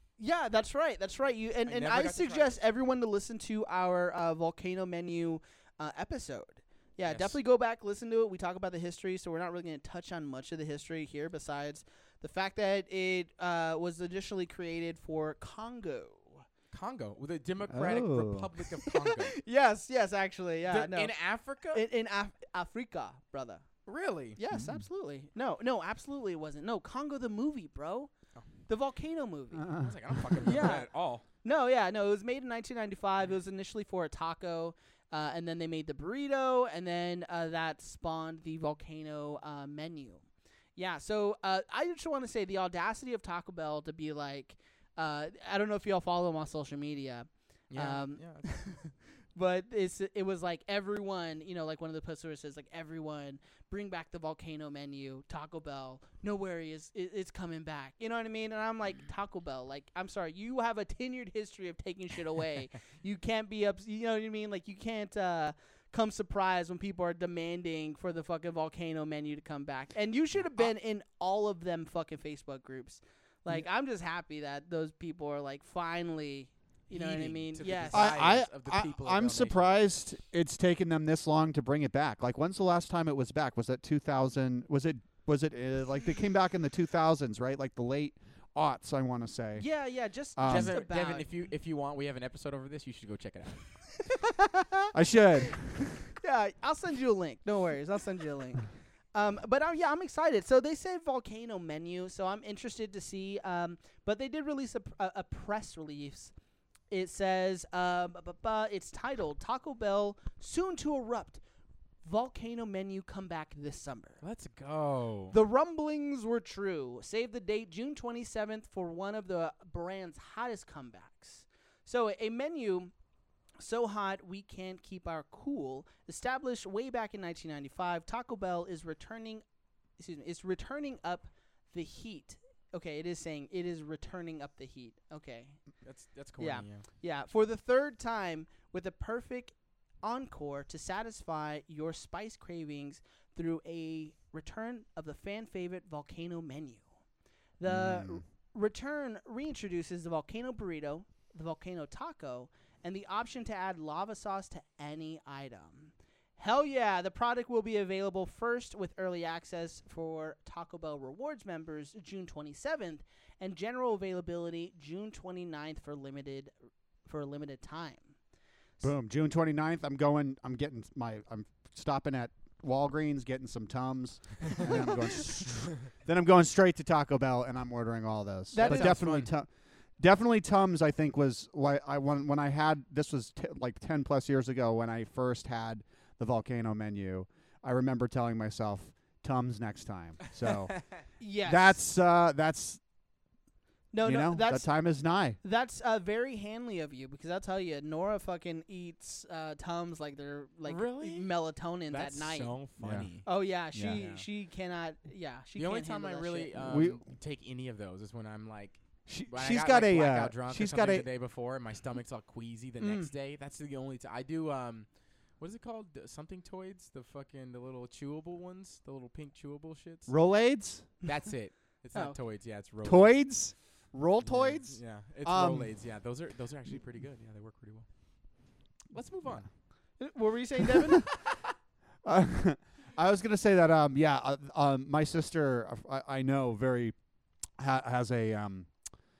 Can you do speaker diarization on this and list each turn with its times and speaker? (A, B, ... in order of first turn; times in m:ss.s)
0:00.2-0:16.4 A
0:01.7-0:02.6 B
0:07.1-0:07.4 B
0:16.7-0:19.4 B
0:17.7-0:18.5 C
0:18.8-0:21.2 A
0:20.7-0:21.8 B
0:21.7-0:23.6 A
0:23.9-0:24.4 B
0:24.4-0:28.1 A
0:24.5-0:24.9 C
0:28.7-0:29.8 A
0:29.6-0:30.8 C
0:29.7-0:31.2 B
0:30.4-0:30.9 A
0:31.4-0:40.2 A
0:40.8-1:18.2 A
0:47.7-0:48.5 B
1:16.9-1:19.7 B
1:17.9-1:29.7 C
1:29.6-1:31.3 A
1:30.4-1:30.8 C
1:30.5-1:33.7 B
1:34.1-1:34.9 A
1:34.9-1:36.0 C
1:36.2-1:46.3 A
1:46.9-1:51.4 A
1:52.0-1:54.2 A
1:54.2-1:55.4 B
1:55.3-2:02.9 A
2:03.6-2:09.4 A
2:10.0-2:15.6 A
2:15.8-2:16.8 B
2:16.4-2:26.9 A
2:27.6-2:46.5 A
2:27.7-2:28.2 C
2:47.0-2:48.1 A
2:48.8-3:10.8 C
2:58.5-2:59.1 A
2:58.6-2:59.3 B
3:11.2-3:11.8 A
3:11.4-3:12.8 C
3:13.9-3:14.7 A
3:14.0-3:15.4 C
3:15.4-3:22.6 A
3:20.7-3:21.3 B
3:21.9-3:23.3 B
3:22.8-3:23.1 C
3:23.2-3:26.5 A
3:23.7-3:24.0 C
3:23.9-3:24.3 B
3:25.6-3:34.9 B
3:26.6-3:27.0 C
3:29.1-3:31.1 C
3:32.8-3:33.1 A
3:35.4-3:40.1 B
3:40.1-3:40.9 C
3:41.0-3:43.2 B
3:42.8-3:45.7 C
3:44.2-3:47.9 B
3:48.9-3:49.5 B
3:50.0-3:51.1 A
3:52.0-3:57.0 C
3:57.6-3:58.7 C